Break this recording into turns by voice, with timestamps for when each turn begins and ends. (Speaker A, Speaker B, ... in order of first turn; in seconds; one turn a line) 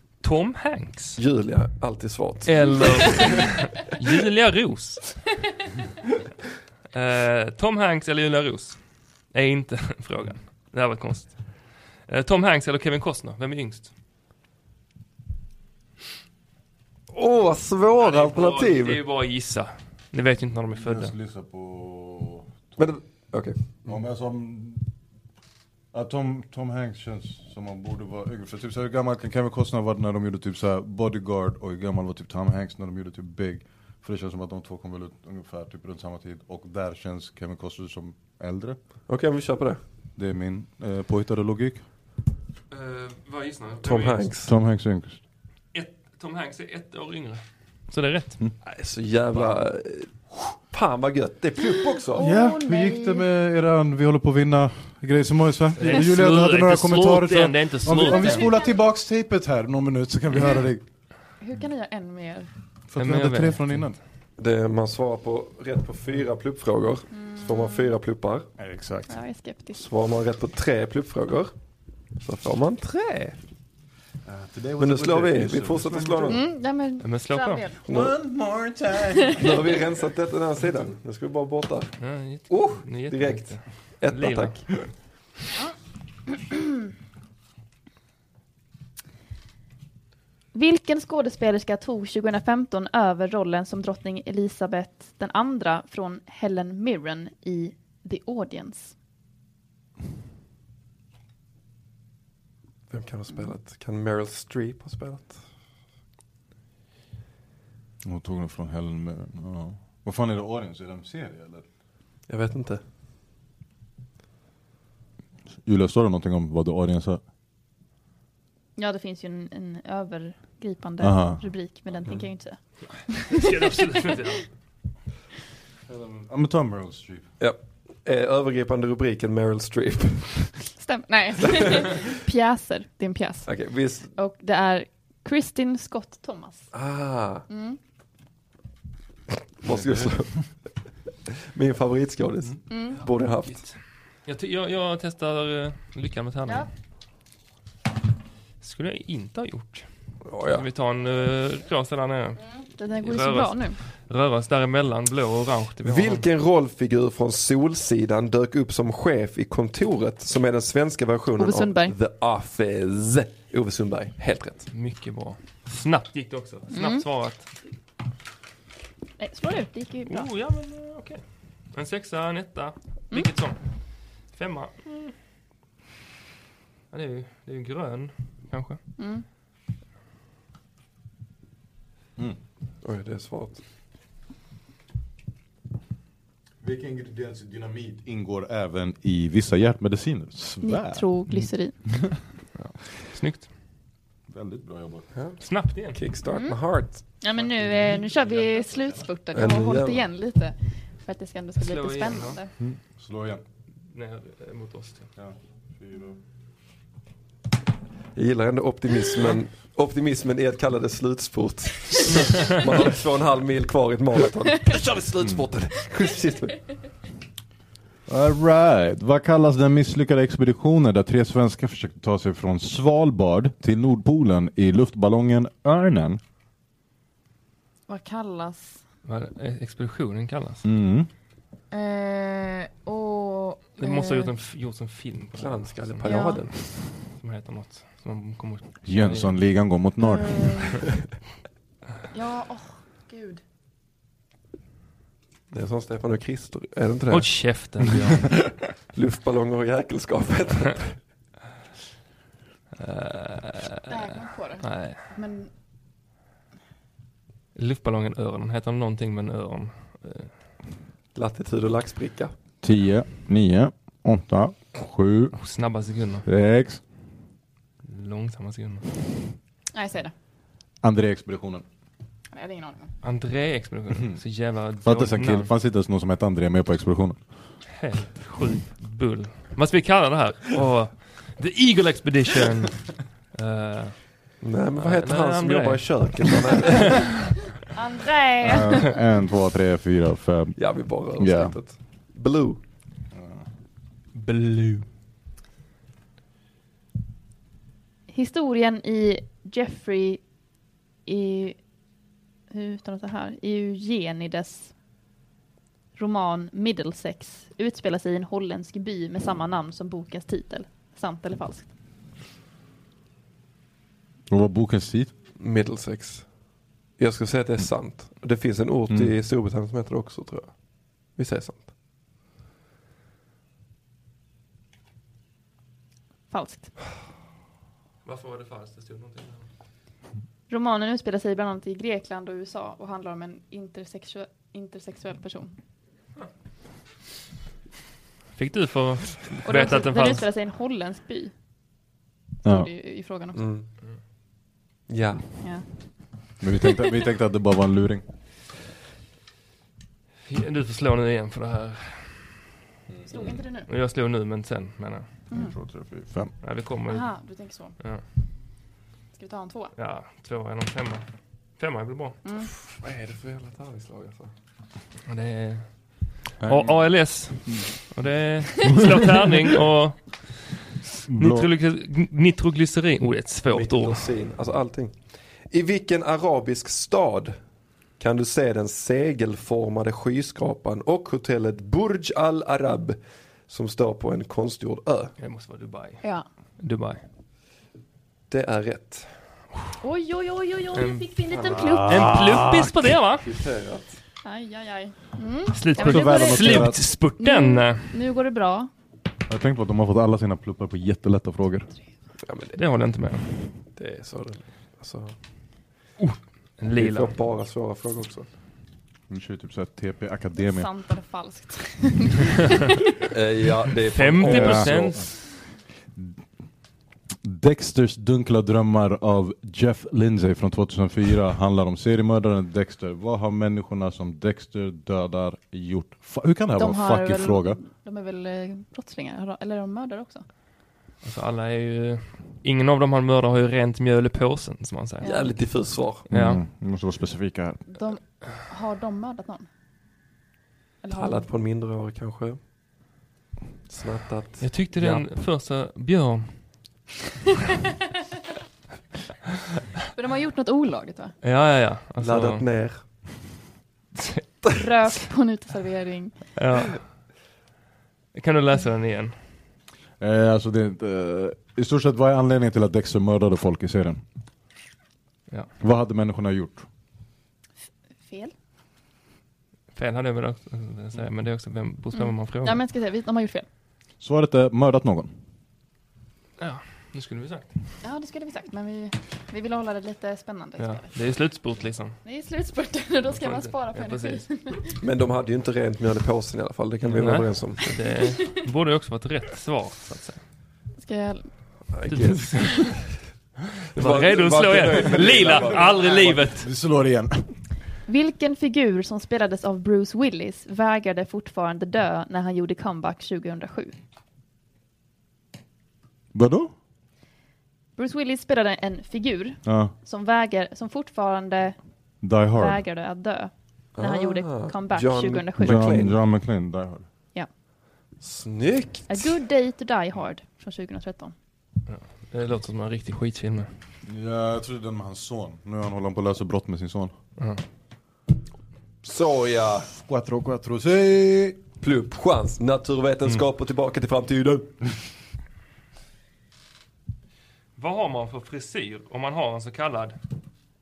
Speaker A: 0.2-1.2
Speaker B: 1.2-3.5
Speaker A: 2.4-5.3
Speaker A: 6.9-13.9
Speaker B: 17.1-19.0
Speaker A: 18.0-21.1
Speaker C: 20.8-22.9
Speaker B: 22.8-23.9
Speaker C: 23.9-24.8
Speaker C: 25.9-38.8
Speaker B: 39.1-39.8
Speaker C: 40.1-41.8
Speaker A: 42.7-44.3
Speaker B: 43.8-44.5
Speaker C: 44.4-45.2
Speaker A: 45.7-48.4
Speaker B: 48.6-52.3
Speaker D: 52.1-53.2
Speaker C: 52.2-60.8
Speaker A: 55.8-58.5
Speaker D: 58.0-58.7
Speaker D: 61.4-62.5
Speaker C: 62.9-64.0
Speaker A: 63.0-63.8
Speaker B: 64.4-68.5
Speaker D: 67.1-67.8
Speaker C: 68.6-69.2
Speaker D: 69.1-69.8
Speaker B: 69.8-71.5
Speaker B: 72.2-73.4
Speaker C: 74.2-76.4
Speaker B: 74.8-76.4
Speaker D: 76.3-77.8
Speaker A: 77.0-77.7
Speaker B: 77.8-78.2
Speaker C: 77.9-79.5
Speaker B: 79.3-81.9
Speaker A: 82.0-84.8
Speaker B: 82.5-84.7
Speaker D: 90.5-98.9
Speaker B: 102.9-105.4
Speaker C: 108.0-111.6
Speaker B: 112.3-112.8
Speaker C: 115.6-117.2
Speaker D: 118.8-124.2
Speaker C: 121.0-121.4
Speaker A: 123.0-124.5
Speaker C: 125.8-127.3
Speaker B: 127.4-130.6
Speaker D: 130.8-133.5
Speaker B: 131.4-132.0
Speaker B: 133.4-134.1
Speaker D: 134.1-136.7
Speaker B: 136.7-137.5
Speaker D: 137.5-137.8
Speaker B: 139.6-140.5
Speaker B: 141.3-143.6
Speaker D: 142.7-143.0
Speaker A: 143.5-146.7
Speaker A: 148.6-149.9
Speaker B: 150.2-150.6
Speaker A: 150.5-152.4
Speaker D: 152.6-153.8
Speaker A: 153.0-156.2
Speaker B: 155.8-164.7
Speaker D: 161.4-161.9
Speaker A: 164.7-167.5
Speaker D: 166.7-167.0
Speaker D: 169.2-170.3
Speaker A: 170.1-173.6
Speaker A: 174.2-175.1
Speaker A: 176.9-178.8
Speaker D: 179.0-179.2
Speaker B: 182.8-183.6
Speaker C: 186.6-192.2
Speaker D: 190.6-191.8
Speaker A: 192.6-193.5
Speaker C: 194.3-195.1
Speaker B: 195.1-197.0
Speaker A: 195.4-196.0
Speaker D: 196.3-196.6
Speaker D: 197.2-202.5
Speaker B: 199.3-200.1
Speaker A: 201.6-202.4
Speaker C: 202.6-203.4
Speaker A: 203.9-205.1
Speaker C: 205.2-206.2
Speaker B: 208.1-216.6
Speaker C: 218.1-226.2
Speaker D: 227.9-228.8
Speaker A: 229.0-230.6
Speaker C: 230.6-231.1
Speaker D: 231.7-234.3
Speaker A: 233.8-239.4
Speaker B: 235.3-236.5
Speaker D: 236.0-236.4
Speaker C: 238.8-240.6
Speaker D: 240.0-240.9
Speaker D: 242.1-243.4
Speaker B: 245.5-247.3
Speaker A: 247.1-248.5
Speaker B: 248.9-251.0
Speaker A: 252.8-255.0
Speaker D: 253.9-255.5
Speaker A: 257.5-260.3
Speaker B: 261.1-262.3
Speaker C: 262.6-265.4
Speaker A: 265.3-266.2
Speaker C: 266.2-266.8
Speaker A: 267.8-268.9
Speaker D: 269.7-270.1
Speaker C: 270.8-271.6
Speaker D: 272.3-272.9
Speaker A: 273.0-275.5
Speaker C: 273.9-274.2
Speaker C: 274.8-277.2
Speaker A: 277.7-284.0
Speaker B: 284.4-287.1
Speaker A: 284.8-287.0
Speaker D: 287.7-289.0
Speaker C: 288.4-290.6
Speaker B: 290.6-292.6
Speaker C: 291.2-291.5
Speaker C: 293.1-293.4
Speaker A: 294.1-294.9
Speaker D: 298.1-300.2
Speaker D: 301.1-301.6
Speaker D: 302.5-304.7
Speaker D: 305.9-311.7
Speaker C: 314.3-315.1
Speaker B: 315.4-316.3
Speaker B: 317.0-320.5
Speaker B: 321.1-321.7
Speaker D: 326.3-326.7
Speaker A: 328.0-329.5
Speaker D: 330.5-335.5
Speaker A: 338.4-340.3
Speaker D: 339.4-341.3
Speaker C: 342.4-342.7
Speaker D: 342.4-343.4
Speaker B: 343.3-343.7
Speaker B: 344.9-345.3
Speaker C: 346.4-348.0
Speaker A: 350.2-352.4
Speaker D: 353.1-353.7
Speaker A: 353.1-355.1
Speaker C: 355.3-356.3
Speaker A: 356.4-357.1
Speaker D: 356.9-357.8
Speaker D: 359.1-359.7
Speaker A: 359.8-361.0
Speaker A: 361.6-362.2
Speaker D: 362.2-362.5
Speaker B: 362.6-364.3
Speaker A: 365.1-370.6
Speaker C: 366.4-366.8
Speaker C: 371.1-371.5
Speaker A: 371.1-374.1
Speaker B: 373.5-377.4
Speaker B: 378.0-385.1
Speaker A: 385.2-386.0
Speaker A: 386.6-387.0
Speaker B: 388.3-389.1
Speaker D: 389.8-392.1
Speaker A: 390.7-391.1
Speaker C: 391.4-392.9
Speaker A: 391.9-393.2
Speaker B: 393.2-394.0
Speaker D: 394.2-398.7
Speaker A: 395.5-397.9
Speaker C: 395.7-396.9
Speaker C: 399.3-401.7
Speaker B: 402.2-402.6
Speaker A: 402.5-403.5
Speaker B: 403.8-405.1
Speaker A: 406.0-407.1
Speaker B: 406.7-408.3
Speaker C: 409.1-410.7
Speaker D: 410.4-412.8
Speaker B: 413.1-415.1
Speaker A: 413.9-415.1
Speaker C: 414.2-415.0
Speaker C: 417.2-427.6
Speaker D: 426.6-430.2
Speaker A: 431.0-435.1
Speaker D: 435.0-435.3
Speaker B: 435.0-436.1
Speaker A: 436.1-436.4
Speaker C: 436.1-437.6
Speaker D: 437.7-439.5
Speaker D: 440.8-441.3
Speaker B: 440.9-442.4
Speaker B: 443.7-445.0
Speaker A: 444.4-446.6
Speaker D: 449.9-451.1
Speaker A: 451.2-452.4
Speaker B: 452.0-452.8
Speaker D: 454.5-456.3
Speaker A: 456.4-456.9
Speaker A: 458.1-459.1
Speaker C: 460.0-464.0
Speaker C: 465.6-466.6
Speaker D: 468.0-468.3
Speaker A: 469.7-472.6
Speaker D: 471.9-473.5
Speaker C: 474.0-475.1
Speaker A: 476.4-477.5
Speaker D: 477.8-481.0
Speaker A: 480.6-482.0
Speaker D: 482.0-484.7
Speaker A: 483.1-484.2
Speaker B: 484.8-487.7
Speaker A: 486.9-490.2
Speaker D: 490.8-491.3
Speaker B: 491.7-492.6
Speaker A: 491.9-492.8
Speaker B: 493.7-496.2
Speaker A: 493.7-496.5
Speaker C: 495.2-495.8
Speaker C: 496.4-497.3
Speaker D: 497.9-503.8
Speaker C: 506.1-506.5
Speaker D: 507.8-511.6
Speaker C: 509.4-509.7
Speaker C: 512.0-512.6
Speaker D: 512.4-515.9
Speaker B: 513.8-515.9
Speaker C: 515.4-516.9
Speaker B: 518.0-519.0
Speaker D: 518.9-521.1
Speaker A: 521.7-523.5
Speaker C: 523.9-526.9
Speaker A: 527.2-527.4
Speaker B: 528.8-529.7
Speaker C: 529.7-531.4
Speaker B: 531.6-534.5
Speaker A: 537.5-540.0